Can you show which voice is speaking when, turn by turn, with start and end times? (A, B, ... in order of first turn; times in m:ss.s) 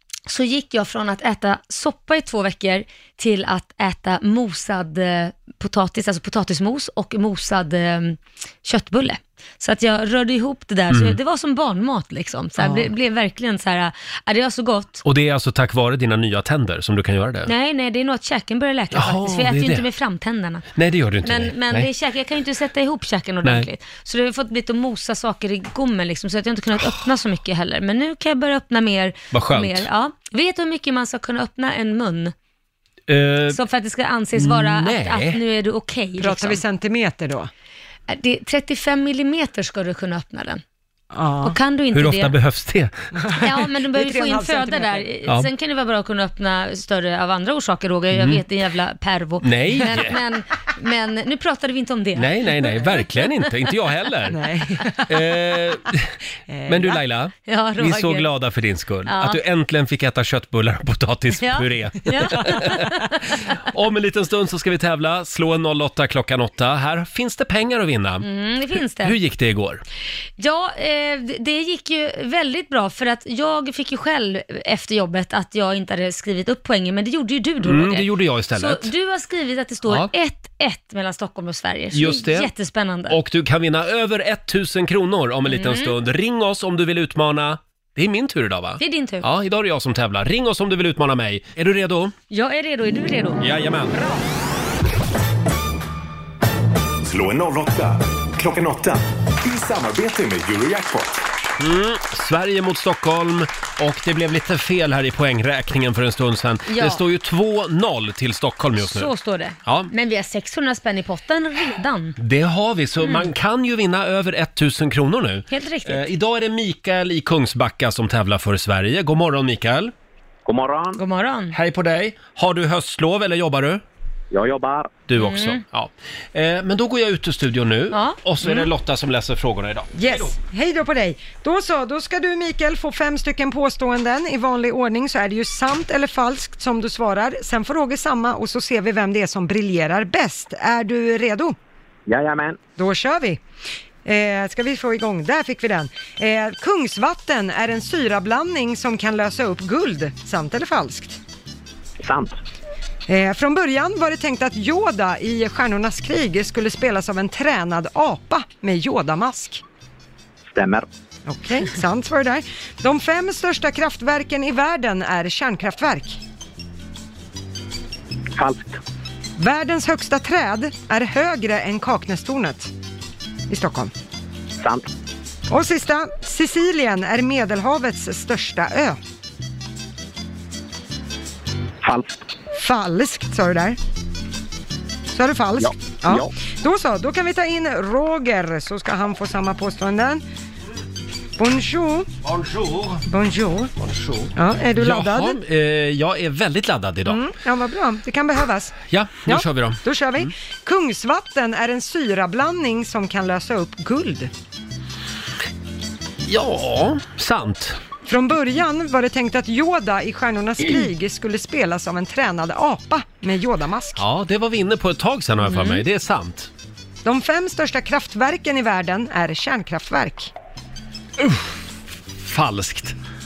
0:00.3-0:15.0 A
0:10.9-0:11.2 B
0:12.6-0:12.9 B
0:15.0-0:17.5 B
0:17.5-0:20.7 A
0:18.9-0:19.9 B
0:20.8-0:21.9 B
0:21.2-0:32.3 A
0:29.3-0:29.9 B
0:33.1-0:33.6 B
0:33.5-0:36.6 A
0:34.4-0:35.4 B
0:36.2-0:37.5 C
0:38.1-0:40.6 A
0:41.1-0:41.6 C
0:41.4-0:42.4 A
0:41.9-0:43.0 B
0:43.2-0:45.1 C
0:43.4-0:53.0 A
0:48.1-0:48.4 B
0:49.4-0:50.2 B
0:52.2-0:54.4 B
0:54.3-0:55.2 C
0:55.1-0:56.1 B
0:56.5-0:56.9 C
0:56.7-1:08.3 B
0:57.5-0:58.3 A
0:59.1-0:59.4 A
1:01.4-1:03.4 A
1:08.2-1:09.2 A
1:09.0-1:09.8 B
1:10.4-1:23.2 A
1:17.6-1:18.9 B
1:19.9-1:20.1 B
1:21.9-1:22.5 B
1:23.1-1:32.1 B
1:25.5-1:26.0 A
1:28.8-1:29.3 A
1:32.3-1:33.5 A
1:33.4-1:34.0 B
1:37.0-1:41.2 D
1:41.6-1:49.1 B
1:46.7-1:47.0 A
1:48.8-1:52.2 A
1:49.6-1:49.9 B
1:52.2-1:59.9 B
1:53.0-1:53.3 A
1:55.5-1:56.1 A
2:00.4-2:01.0 E
2:01.0-2:01.6 A
2:01.5-2:03.8 B
2:04.3-2:05.1 E
2:05.1-2:10.4 B
2:05.2-2:05.6 A
2:07.9-2:08.6 A
2:10.0-2:21.6 C
2:22.1-2:22.6 E
2:22.8-2:23.4 C
2:24.0-2:31.2 C
2:32.0-2:32.4 E
2:33.1-2:39.6 C
2:40.5-2:40.9 E
2:41.3-2:46.2 C
2:48.4-2:48.8 E
2:49.4-2:52.7 C
2:53.5-2:53.9 C
2:54.6-2:54.8 E
2:55.5-2:59.0 C
3:01.8-3:02.2 E
3:02.5-3:03.8 C
3:05.1-3:10.2 C
3:05.6-3:06.3 E
3:11.4-3:12.1 C
3:12.2-3:13.0 B
3:13.1-3:13.7 C
3:13.8-3:17.2 B
3:14.3-3:15.4 C
3:17.0-3:24.3 C
3:18.9-3:20.3 B
3:26.3-3:27.8 B
3:28.1-3:34.0 C
3:34.0-3:36.5 B
3:35.5-3:35.8 A
3:37.0-3:40.3 C
3:41.2-3:41.5 B
3:42.2-3:43.0 B